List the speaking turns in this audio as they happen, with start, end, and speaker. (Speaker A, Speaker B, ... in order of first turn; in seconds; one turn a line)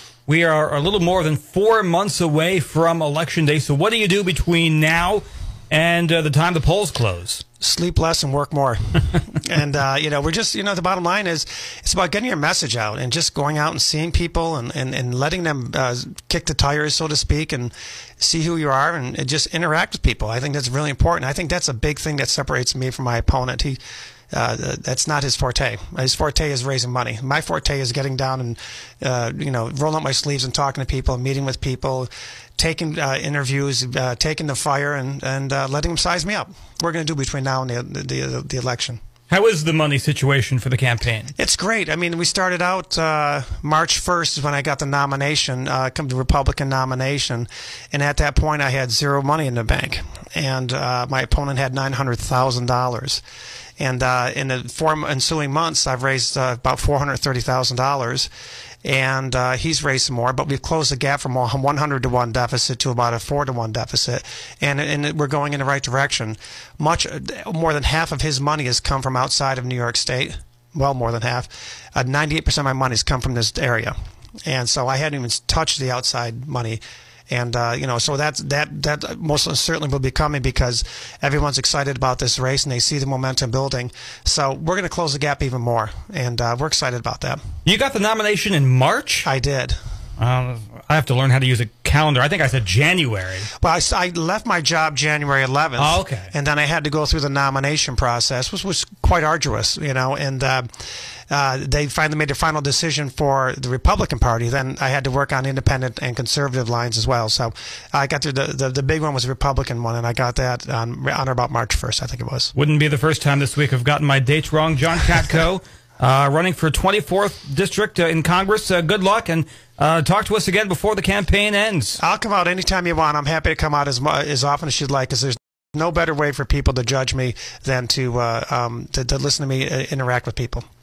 Speaker A: 0.3-7.4
Speaker B: 7.6-23.8
Speaker B: 24.3-39.0
Speaker A: 39.3-41.3
Speaker B: 41.4-53.2
Speaker B: 53.8-58.3
Speaker B: 58.8-87.4
Speaker A: 87.6-89.3
Speaker B: 89.2-89.8
Speaker A: 90.2-93.5
Speaker B: 93.6-112.5
Speaker A: 95.8-96.3
Speaker A: 112.5-122.0
Speaker B: 122.0-130.6